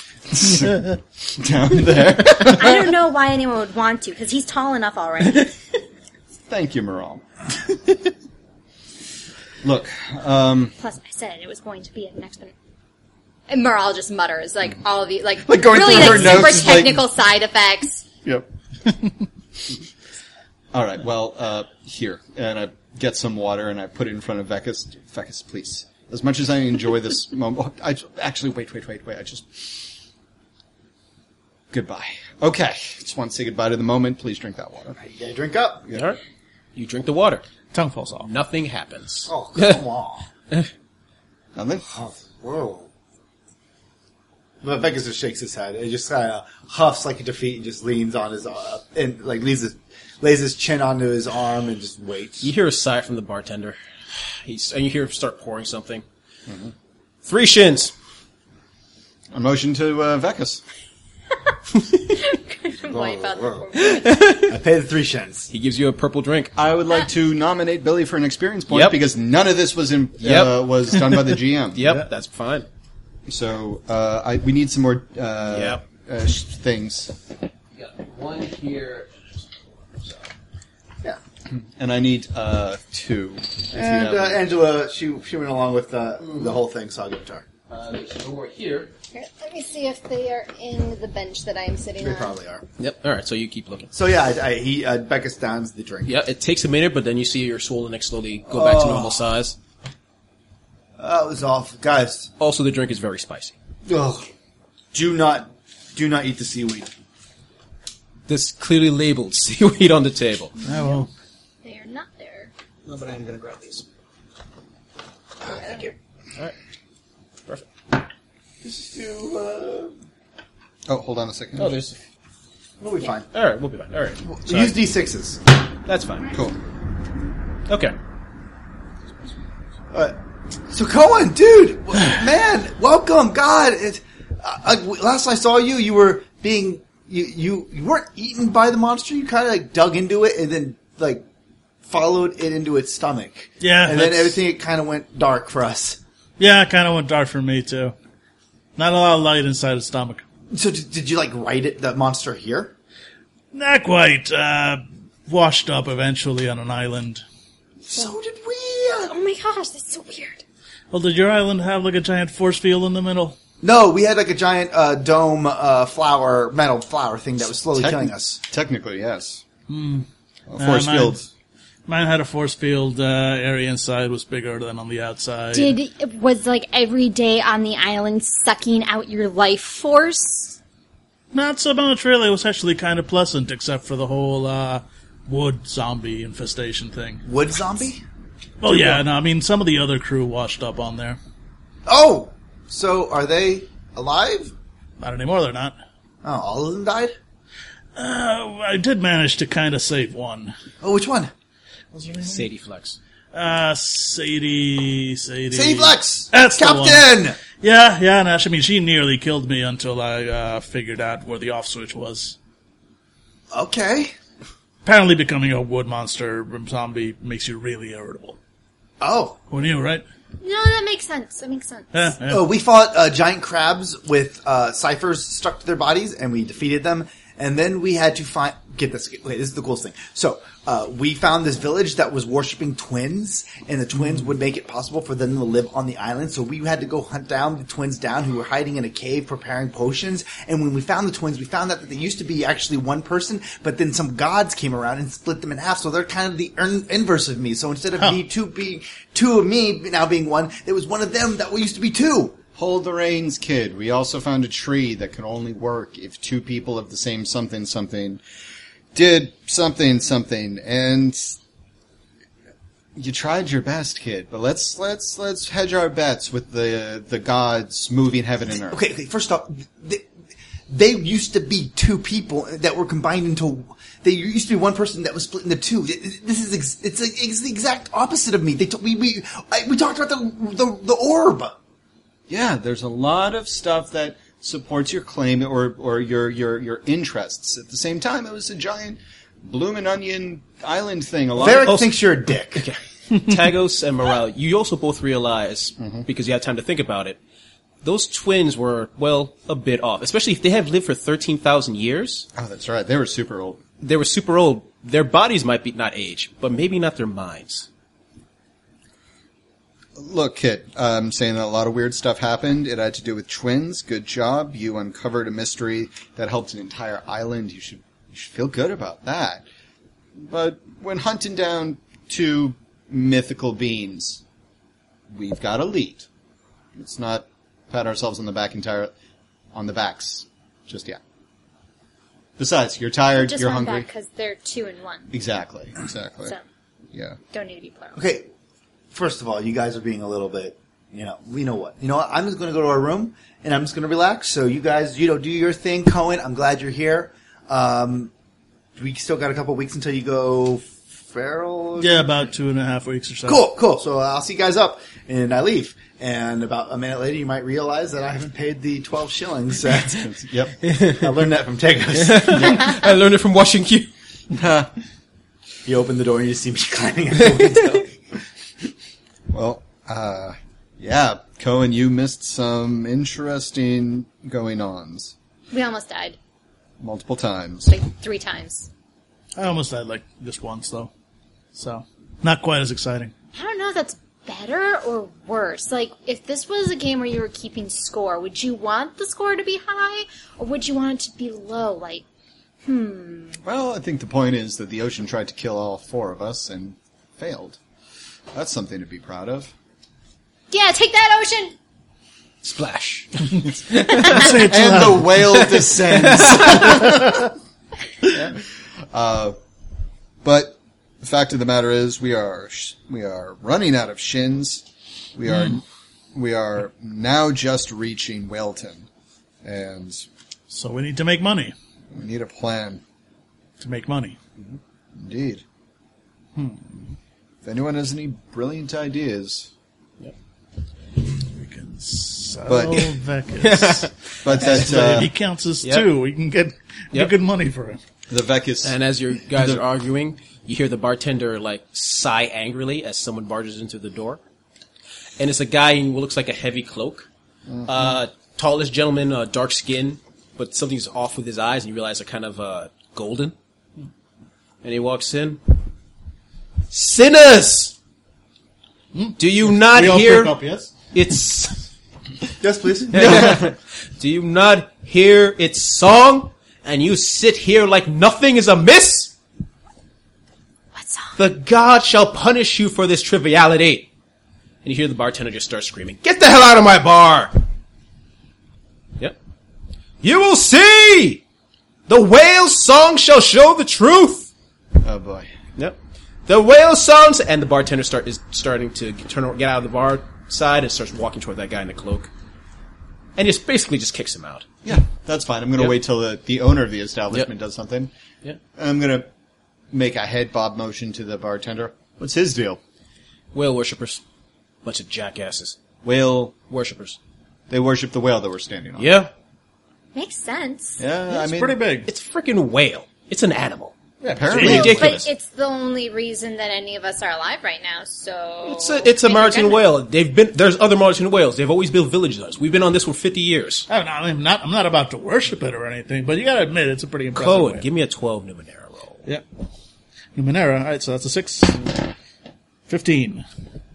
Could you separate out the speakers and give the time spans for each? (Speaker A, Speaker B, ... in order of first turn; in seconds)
Speaker A: 0.3-3.0, 6.5-7.2, 9.6-10.8, 15.4-17.1, 20.7-29.9, 31.7-35.0, 41.5-41.8, 56.5-56.7, 59.3-60.6, 66.5-71.9, 73.3-77.1, 81.5-84.4, 120.9-121.8, 167.7-169.4, 170.5-171.2, 252.6-258.2, 258.9-261.4, 262.9-268.8, 282.3-291.8, 295.8-296.0, 302.3-303.6, 309.9-319.4, 320.2-324.2, 325.1-326.1, 326.7-328.9, 329.5-331.0, 332.4-333.9, 335.1-336.4, 336.9-337.2, 359.8-360.6, 364.3-364.7, 369.3-375.1, 376.8-377.7, 393.4-397.6, 398.3-399.5, 403.4-407.2, 408.1-408.4, 408.9-409.4, 410.2-414.6, 415.1-415.6, 416.1-418.9, 419.4-420.1, 421.9-422.8, 424.9-425.4, 427.4-429.5, 432.5-432.9, 434.2-435.1, 438.1-438.8, 439.3-439.6, 447.5-447.9, 462.9-463.5, 484.8-485.3, 494.6-497.9, 498.6-499.1, 499.7-502.6, 505.8-506.3, 507.5-509.0, 510.8-511.6, 514.0-515.0
Speaker B: 2.4-5.5, 10.8-12.5, 13.5-18.0, 62.1-64.2, 89.1-92.3, 110.6-110.9, 111.6-112.5, 115.5-115.8, 159.0-160.4, 175.5-180.6, 220.4-222.1, 333.2-335.1, 337.3-338.0, 375.5-376.2, 377.7-378.7, 383.3-392.0, 392.6-393.4, 400.5-401.5, 470.7-471.1, 509.9-510.8, 514.3-519.6
Speaker C: 35.0-35.9, 39.3-40.2, 41.9-42.9, 44.6-52.5, 62.9-63.7, 64.3-65.5, 83.7-87.4, 92.0-92.6, 93.9-96.1, 98.5-99.2, 101.0-102.3, 103.8-104.2, 104.9-106.9, 112.9-113.8, 115.4-115.9, 118.6-119.9, 122.8-123.3, 124.2-125.4, 130.7-141.2, 141.8-146.0, 150.5-152.7, 157.8-159.1, 163.6-168.4, 187.2-188.0, 188.7-189.0, 191.8-194.5, 196.2-197.1, 200.8-201.3, 205.5-207.4, 213.5-214.1, 219.0-219.4, 222.3-252.4, 268.6-270.1, 270.7-281.6, 291.4-292.6, 337.9-338.3, 338.9-348.1, 348.8-352.1, 353.3-360.1, 360.8-362.7, 365.6-368.0, 462.4-463.3
Speaker D: 35.9-36.2, 36.7-37.4, 38.2-39.8, 52.4-56.0, 57.2-57.9, 63.8-64.5, 65.5-66.5, 68.7-69.0, 70.2-72.7, 75.5-75.8, 77.8-80.3, 86.3-86.5, 87.7-88.9, 92.8-93.9, 96.0-99.6, 102.4-103.5, 108.3-110.5, 121.6-121.9, 123.3-124.8, 125.8-126.3, 127.7-127.9, 202.2-203.0, 292.5-297.2, 297.8-302.3, 303.8-307.7, 360.6-361.1, 361.9-363.9, 402.4-404.3, 405.3-406.8, 433.4-434.7, 435.6-435.9, 438.6-444.2, 445.2-447.1, 447.6-453.3, 454.6-455.5, 456.7-457.7, 459.2-460.4, 460.9-461.6, 462.9-469.1, 471.2-473.9, 474.6-477.4, 480.0-481.2, 481.9-484.3, 485.6-492.1, 493.1-494.5, 503.3-504.0, 504.6-505.6, 506.5-507.0, 508.8-509.1, 511.9-513.7, 514.3-515.1, 518.4-523.7, 527.1-529.0
Speaker E: 37.7-38.3, 110.6-111.1, 143.6-144.4, 146.4-147.9, 148.8-150.2, 153.5-157.2, 160.9-163.3, 169.7-170.1, 170.6-171.2, 171.9-175.8, 181.3-187.2, 188.6-191.2, 195.0-195.7, 197.9-200.5, 201.9-202.4, 203.3-212.3, 214.8-218.4, 219.5-220.0, 221.9-222.4, 351.8-353.4, 379.4-380.9, 381.5-383.1, 404.0-405.2, 406.8-407.1, 420.5-421.5, 423.6-424.2, 426.4-426.8, 431.1-437.8, 458.9-460.7, 511.1-511.9, 514.0-514.9, 523.7-527.6, 530.1-531.8, 532.7-533.2